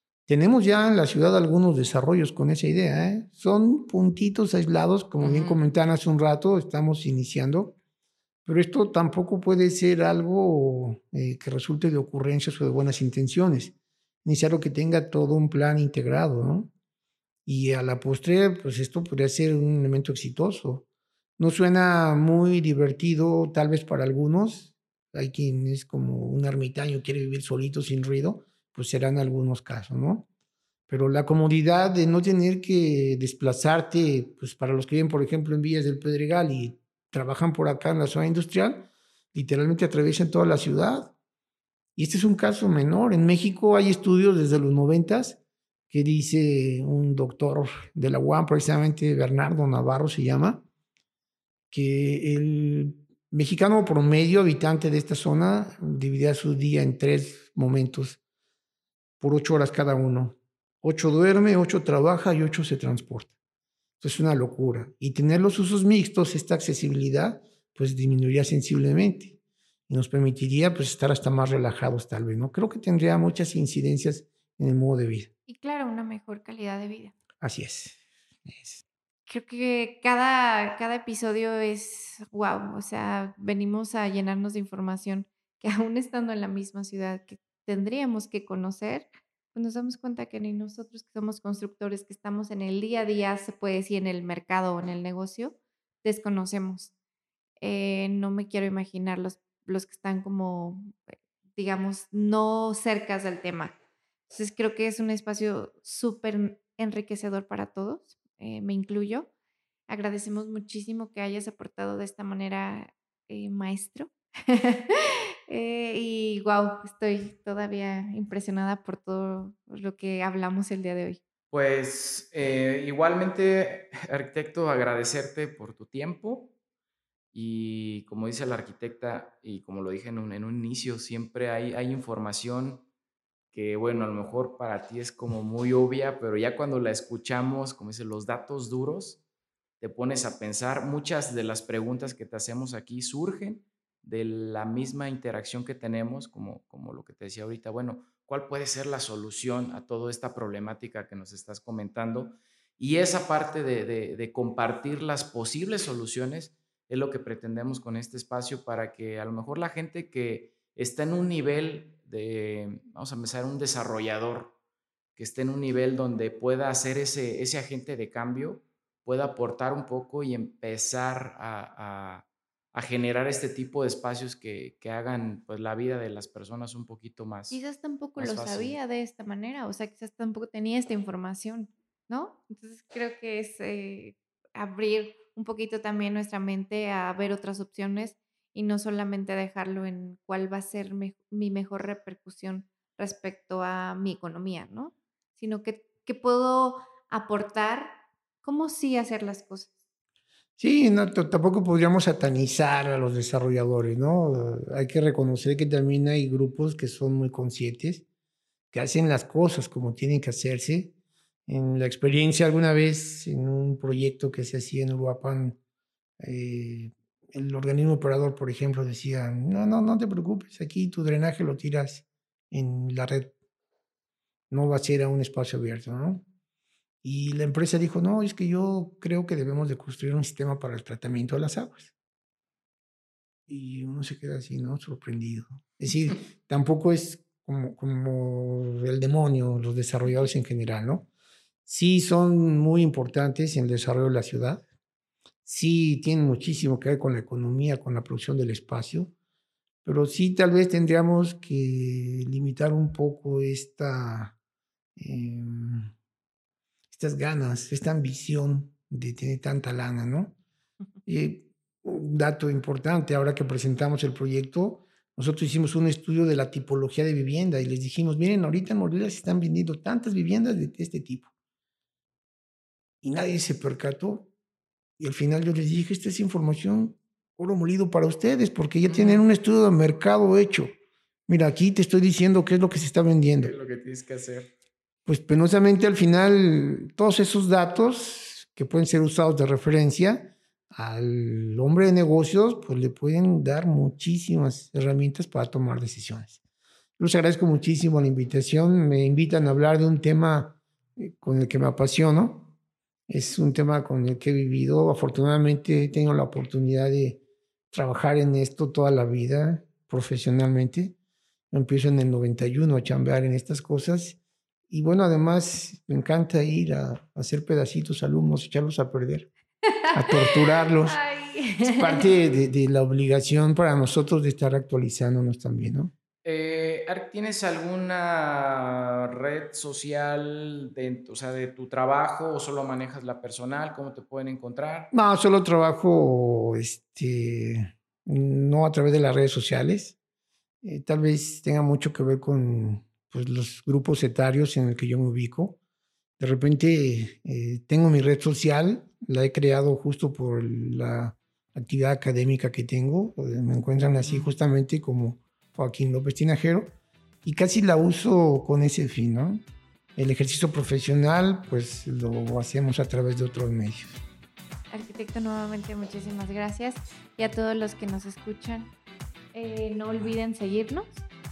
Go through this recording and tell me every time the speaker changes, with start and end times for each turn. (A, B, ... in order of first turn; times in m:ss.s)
0:00.3-0:07.8 A
0:05.2-0:05.6 B
0:08.4-0:16.7 A
0:17.4-0:20.8 A
0:21.4-0:30.3 A
0:30.9-0:41.1 A
0:42.0-0:45.4 A
0:45.9-0:50.6 A
0:51.7-0:58.2 A
0:59.2-1:03.3 A
1:04.0-1:09.4 A
1:09.9-1:15.3 A
1:15.5-1:17.2 C
1:17.4-1:18.8 A
1:19.3-1:36.9 C
1:37.6-1:41.0 C
1:41.5-1:43.7 C
1:44.3-1:49.3 C
1:49.9-2:01.2 C
2:01.5-2:06.5 B
2:07.3-2:12.8 B
2:13.5-2:19.2 B
2:19.8-2:44.6 B
2:45.2-2:57.6 B
2:57.5-3:19.8 C
2:58.2-2:58.8 B
3:20.6-3:28.0 A
3:28.7-3:30.9 A
3:31.5-3:35.6 A
3:36.2-3:43.3 A
3:44.5-3:46.2 A
3:47.0-3:51.9 A
3:53.5-4:01.1 A
4:01.6-4:04.6 A
4:05.4-4:09.1 A
4:09.8-4:14.4 A
4:15.0-4:15.9 A
4:16.9-4:20.4 A
4:21.0-4:31.3 A
4:33.0-4:34.3 A
4:35.0-4:40.7 A
4:38.9-4:39.2 B
4:41.3-4:43.5 A
4:43.4-4:44.5 B
4:45.1-4:56.4 A
4:57.0-5:02.5 A
5:03.1-5:11.0 A
5:11.5-5:14.2 A
5:14.7-5:19.3 A
5:19.9-5:21.0 A
5:20.1-5:22.1 C
5:21.6-5:25.9 A
5:26.2-5:34.9 B
5:34.9-5:40.0 A
5:40.6-5:45.6 A
5:46.2-5:56.7 A
5:54.0-5:54.3 B
5:57.2-5:59.4 A
6:00.0-6:04.0 A
6:04.7-6:08.7 C
6:09.3-6:11.0 C